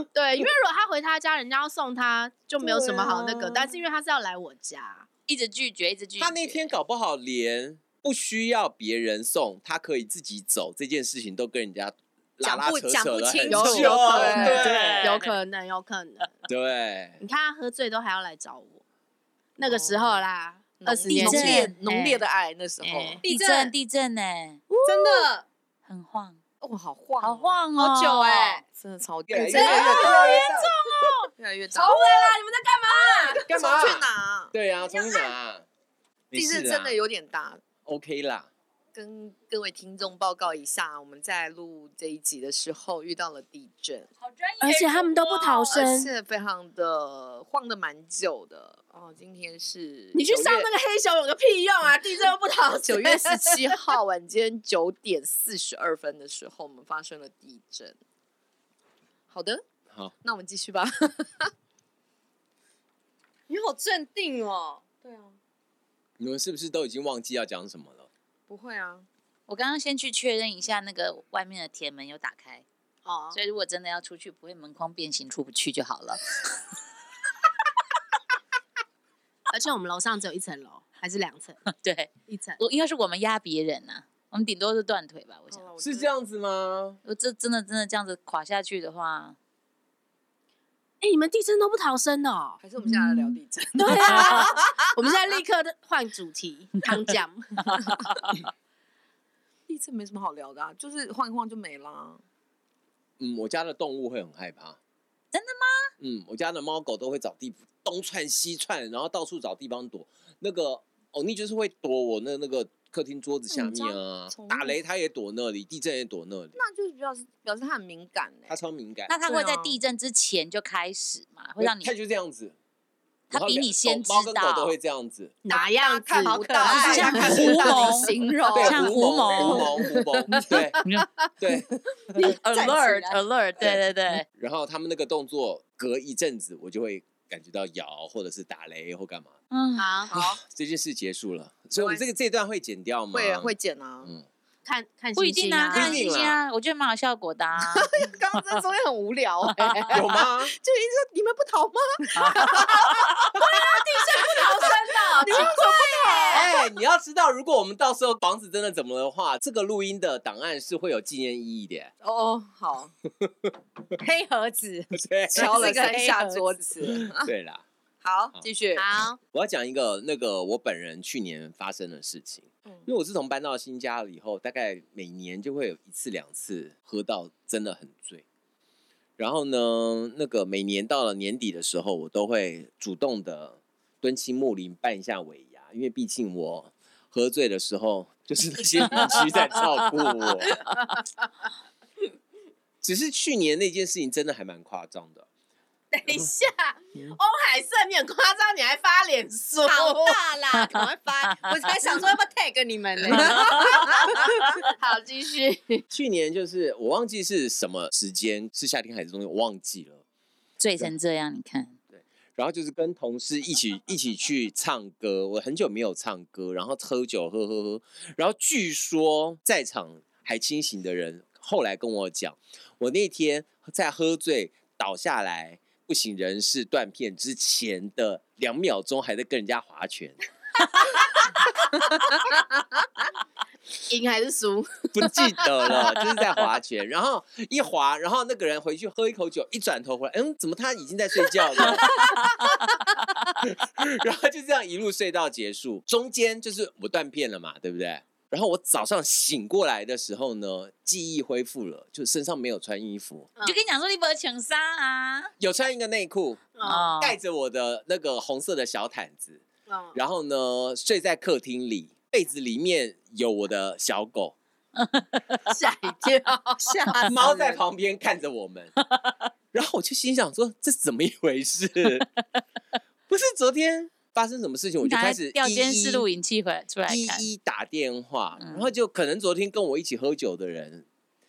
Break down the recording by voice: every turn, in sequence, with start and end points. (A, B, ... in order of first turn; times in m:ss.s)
0:00.1-0:05.1 A
0:02.6-0:03.4 B
0:05.3-0:06.8 C
0:06.2-0:15.2 D
0:12.4-0:14.7 E
0:13.5-0:16.3 A
0:14.0-0:14.6 B
0:14.6-0:15.4 C
0:16.4-0:17.2 D
0:17.2-0:18.8 A
0:19.6-0:21.7 A
0:20.8-0:23.2 B
0:21.1-0:22.2 C
0:22.8-0:23.2 A
0:23.2-0:23.7 E
0:23.2-0:24.6 C
0:24.8-0:25.3 B
0:24.8-0:25.4 E
0:25.8-0:26.4 C
0:26.6-0:30.2 B
0:27.2-0:28.5 C
0:27.8-0:28.6 E
0:29.3-0:30.7 D
0:29.5-0:33.4 A
0:31.4-0:32.3 B
0:31.8-0:32.3 E
0:32.9-0:34.5 B
0:33.5-0:35.6 D
0:34.9-0:35.3 A
0:36.3-0:37.0 D
0:36.3-0:37.6 B
0:37.8-0:38.5 D
0:38.9-0:44.1 B
0:44.2-0:46.0 C
0:44.6-0:46.1 A
0:45.7-0:50.7 B
0:50.1-0:53.9 A
0:52.8-0:58.0 B
0:59.3-0:59.6 B
1:00.2-1:01.5 B
1:03.5-1:04.9 E
1:04.9-1:05.4 B
1:06.2-1:08.1 D
1:08.5-1:09.1 B
1:09.5-1:12.6 C
1:13.0-1:13.4 A
1:13.3-1:16.2 C
1:19.5-1:21.6 A
1:21.7-1:25.7 C
1:22.3-1:22.6 A
1:25.5-1:26.1 B
1:25.8-1:27.0 D
1:27.0-1:29.4 C
1:31.0-1:32.6 A
1:32.6-1:34.7 B
1:32.8-1:33.4 C
1:33.8-1:37.8 A
1:34.1-1:34.4 C
1:37.7-1:38.1 B
1:39.7-1:42.2 B
1:43.2-1:44.8 D
1:45.3-1:45.9 C
1:46.0-1:56.6 D
1:53.5-1:54.8 B
1:56.6-1:58.6 B
1:58.5-1:59.1 D
1:59.1-2:01.9 C
1:59.2-1:59.8 B
2:01.6-2:02.5 D
2:03.3-2:04.7 C
2:03.3-2:05.3 D
2:05.4-2:07.8 A
2:05.5-2:09.7 B
2:06.1-2:08.9 E
2:06.6-2:09.7 C
2:08.5-2:10.8 D
2:10.8-2:11.2 C
2:11.4-2:12.2 D
2:12.0-2:13.2 B
2:12.2-2:14.2 C
2:13.6-2:19.4 D
2:19.5-2:20.0 C
2:19.8-2:20.1 A
2:20.1-2:20.4 B
2:20.1-2:24.2 D
2:21.7-2:22.0 B
2:23.1-2:24.1 B
2:24.6-2:26.1 A
2:25.2-2:27.9 C
2:25.7-2:26.4 D
2:27.6-2:33.4 B
2:29.6-2:29.9 C
2:29.9-2:30.5 D
2:32.1-2:33.0 C
2:33.3-2:36.5 A
2:34.2-2:36.5 B
2:35.3-2:36.4 E
2:36.3-2:41.9 D
2:42.0-2:42.9 B
2:43.2-2:43.5 D
2:44.0-2:46.6 E
2:44.9-2:45.9 D
2:45.3-2:47.3 B
2:46.8-2:47.6 D
2:48.0-2:49.0 B
2:48.8-2:49.2 A
2:49.3-2:58.2 D
2:59.2-3:10.7 D
3:10.5-3:11.0 A
3:12.8-3:15.2 D
3:15.9-3:20.2 A
3:19.6-3:23.8 E
3:23.1-3:24.5 C
3:23.2-3:23.9 B
3:23.5-3:25.8 A
3:25.9-3:30.0 D
3:30.6-3:31.8 C
3:31.9-3:50.2 D
3:53.8-3:55.7 A
3:54.9-4:13.3 D
4:13.4-4:13.7 A
4:13.4-4:15.3 C
4:15.4-4:19.4 D
4:16.6-4:16.9 A
4:16.6-4:17.2 C
4:19.7-4:20.0 A
4:19.9-4:24.4 D
4:24.8-4:25.5 C
4:25.4-4:26.9 A
4:26.8-4:27.3 C
4:26.8-4:27.6 E
4:27.1-4:28.7 D
4:28.8-4:29.1 C
4:29.5-4:32.1 D
4:33.1-4:36.0 D
4:34.8-4:37.2 C
4:36.9-4:40.8 D
4:38.4-4:38.7 C